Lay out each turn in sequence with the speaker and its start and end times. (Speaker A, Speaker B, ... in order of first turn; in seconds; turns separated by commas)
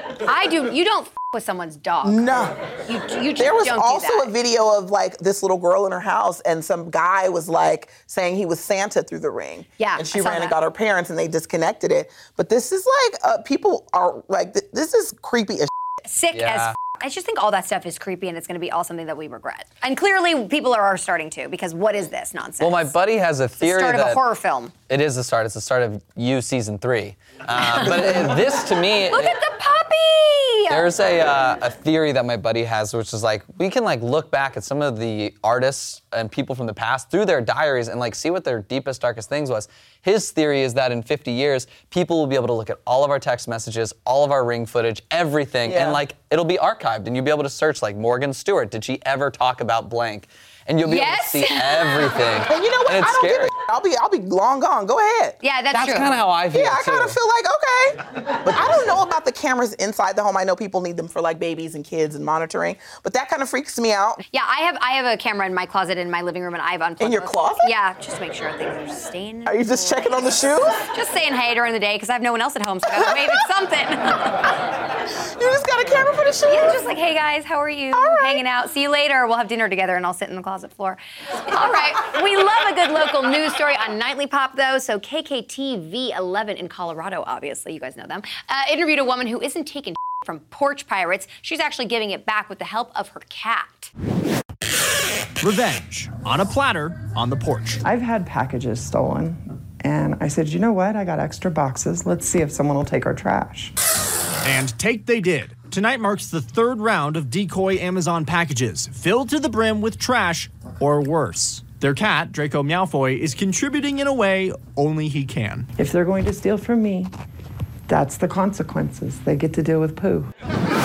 Speaker A: 0.2-4.3, Speaker B: 2.0-2.5, Speaker B: 3.4-15.7, Speaker A: 9.8-10.6, Speaker A: 16.1-22.9, Speaker C: 16.3-16.7, Speaker C: 22.6-24.2, Speaker A: 23.6-24.7, Speaker C: 24.9-29.4, Speaker A: 27.6-28.3, Speaker A: 29.1-30.9, Speaker C: 30.7-53.5, Speaker B: 45.6-46.0, Speaker A: 50.9-52.1, Speaker B: 52.5-55.4, Speaker A: 55.4-56.1, Speaker C: 55.7-57.2, Speaker B: 56.5-64.2, Speaker A: 64.3-74.6, Speaker B: 67.0-67.7, Speaker B: 69.5-70.8, Speaker B: 75.4-76.8, Speaker A: 76.5-93.9, Speaker B: 77.9-78.4, Speaker D: 95.4-97.8, Speaker E: 97.9-103.7, Speaker D: 104.4-115.7, Speaker E: 115.8-117.1, Speaker E: 117.9-120.3